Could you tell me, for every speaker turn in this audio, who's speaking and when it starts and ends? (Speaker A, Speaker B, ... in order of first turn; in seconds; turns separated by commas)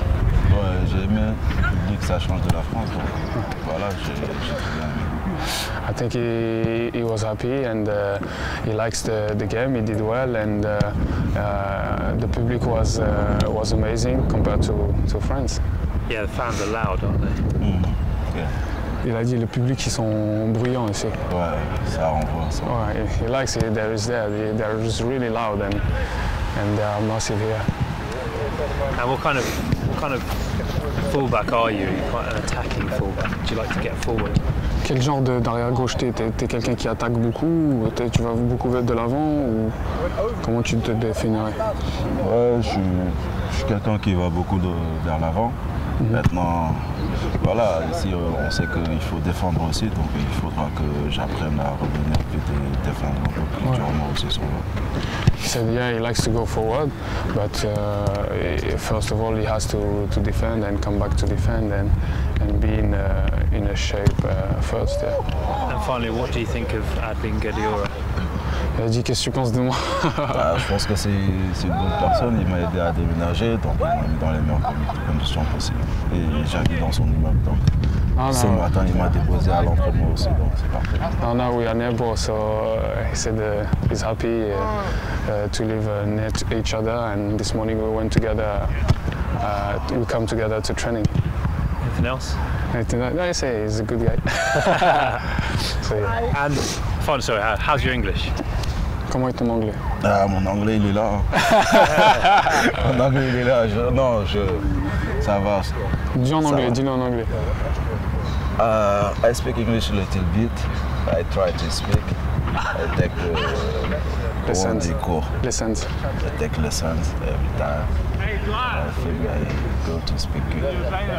Speaker A: 0.5-5.3, Speaker B: 5.6-15.6, Speaker C: 16.1-17.4, Speaker A: 17.6-18.6, Speaker B: 19.0-21.3, Speaker A: 21.3-22.7, Speaker B: 22.6-27.7, Speaker C: 28.9-34.4, Speaker B: 34.8-39.8, Speaker B: 40.4-41.7, Speaker A: 42.1-54.7, Speaker B: 55.2-65.2, Speaker C: 65.6-68.0, Speaker B: 68.7-70.5, Speaker A: 70.3-77.7, Speaker B: 78.2-78.7, Speaker A: 78.2-81.1, Speaker B: 81.2-91.1, Speaker C: 91.8-92.4, Speaker B: 92.7-96.3, Speaker C: 96.3-98.3, Speaker B: 99.1-99.8, Speaker A: 100.0-101.6, Speaker B: 101.7-102.0, Speaker A: 102.2-105.8, Speaker B: 106.1-107.4, Speaker A: 106.4-106.8, Speaker A: 108.5-112.1, Speaker A: 112.7-115.3, Speaker B: 114.4-115.9, Speaker A: 116.2-117.9, Speaker A: 118.5-120.8